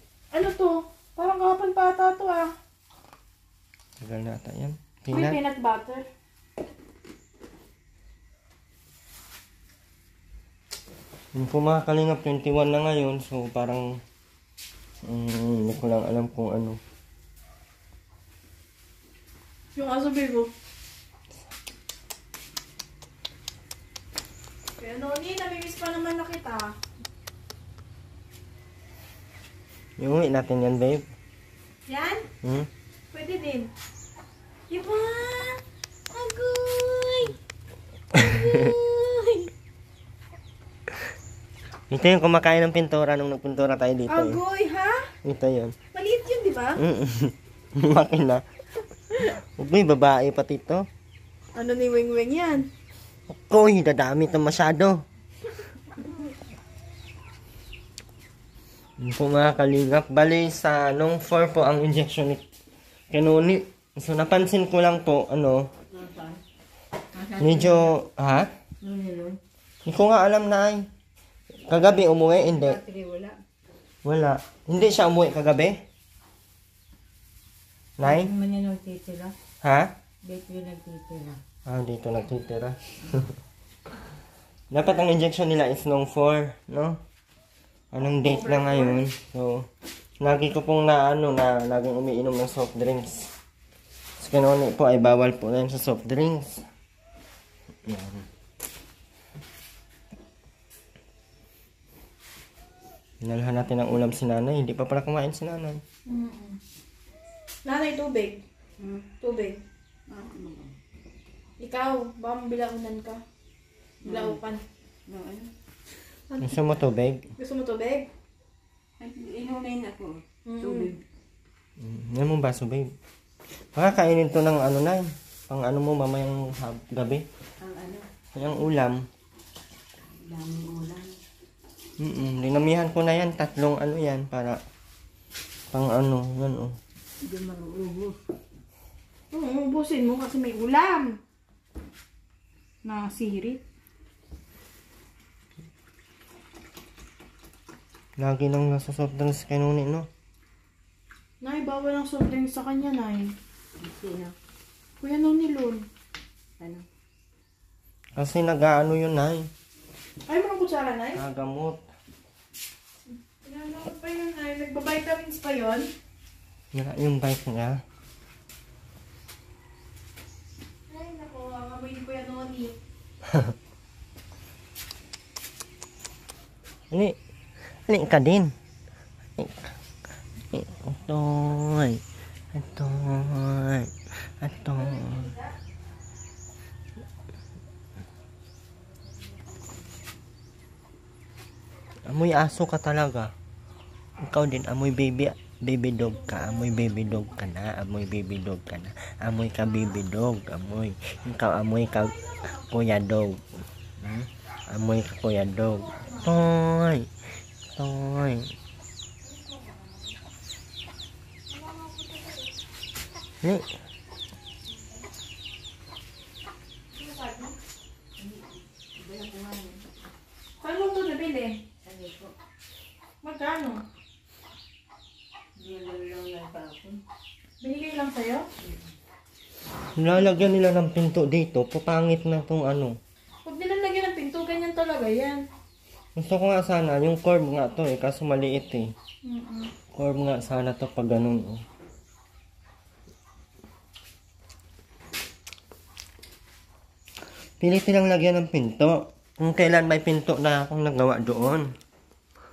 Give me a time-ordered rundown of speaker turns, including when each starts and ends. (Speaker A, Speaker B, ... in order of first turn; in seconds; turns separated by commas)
Speaker A: 0.3-2.5, Speaker B: 4.0-5.4, Speaker A: 5.1-6.1, Speaker B: 11.3-14.0, Speaker B: 15.0-16.8, Speaker A: 19.8-20.5, Speaker A: 24.8-26.8, Speaker B: 30.0-31.1, Speaker A: 31.9-32.3, Speaker B: 32.4-32.7, Speaker A: 33.1-33.7, Speaker A: 34.7-37.4, Speaker B: 38.1-38.7, Speaker A: 38.2-39.5, Speaker B: 41.9-44.4, Speaker A: 44.1-45.1, Speaker B: 45.2-45.8, Speaker A: 45.9-46.8, Speaker B: 46.8-48.4, Speaker B: 49.6-50.9, Speaker A: 51.5-52.7, Speaker B: 53.3-55.0, Speaker B: 59.0-62.4, Speaker B: 63.1-65.7, Speaker C: 65.9-66.4, Speaker C: 67.2-67.9, Speaker B: 67.4-68.5, Speaker C: 68.8-69.4, Speaker B: 69.8-70.9, Speaker B: 71.7-72.8, Speaker C: 72.3-73.4, Speaker B: 74.0-75.8, Speaker B: 78.0-78.3, Speaker C: 78.0-79.3, Speaker B: 79.6-79.9, Speaker C: 80.2-81.4, Speaker B: 81.7-83.3, Speaker B: 84.7-87.0, Speaker B: 87.9-89.7, Speaker A: 88.1-89.0, Speaker B: 90.2-93.3, Speaker B: 94.2-96.6, Speaker B: 97.9-98.3, Speaker B: 103.2-105.8, Speaker A: 106.1-106.6, Speaker A: 107.7-108.4, Speaker C: 108.8-109.1, Speaker A: 109.2-109.6, Speaker C: 110.1-110.7, Speaker A: 111.6-113.2, Speaker C: 114.0-114.4, Speaker A: 114.0-114.6, Speaker C: 115.1-115.5, Speaker A: 116.3-116.7, Speaker B: 116.4-117.3, Speaker A: 117.4-118.1, Speaker C: 119.0-121.0, Speaker A: 120.5-120.9, Speaker B: 121.8-122.9, Speaker B: 123.7-127.3, Speaker C: 127.6-128.1, Speaker B: 128.3-129.1, Speaker C: 130.0-131.2, Speaker B: 132.0-134.6, Speaker B: 135.7-136.8, Speaker C: 137.2-138.2, Speaker A: 139.3-141.2, Speaker A: 142.8-143.6, Speaker B: 148.2-150.1, Speaker A: 151.4-153.3, Speaker C: 153.8-154.3, Speaker A: 155.0-155.9, Speaker C: 156.6-156.9, Speaker B: 158.2-159.5, Speaker A: 160.3-161.2, Speaker B: 161.1-161.8, Speaker A: 163.4-165.9, Speaker B: 166.7-167.8, Speaker A: 170.9-172.8, Speaker B: 173.3-173.5, Speaker B: 176.9-177.2, Speaker B: 177.9-178.5, Speaker B: 179.4-179.7, Speaker B: 180.5-182.0, Speaker B: 182.5-185.3, Speaker A: 184.6-185.5, Speaker B: 192.1-193.3, Speaker B: 194.2-202.2, Speaker A: 196.1-197.4, Speaker A: 201.9-202.7, Speaker B: 202.7-203.4, Speaker B: 204.0-207.1, Speaker A: 205.7-206.4, Speaker B: 207.8-208.5, Speaker A: 209.2-210.2, Speaker A: 211.5-212.5, Speaker B: 213.4-213.7, Speaker A: 216.9-217.6, Speaker C: 218.2-219.9, Speaker A: 220.6-221.6, Speaker C: 221.8-222.3, Speaker A: 223.2-223.8, Speaker C: 225.6-227.0, Speaker A: 227.6-228.5, Speaker C: 228.6-228.9, Speaker B: 230.0-233.0, Speaker A: 233.4-235.4, Speaker B: 236.2-238.9, Speaker A: 239.2-239.7, Speaker B: 239.9-241.7, Speaker B: 247.6-251.7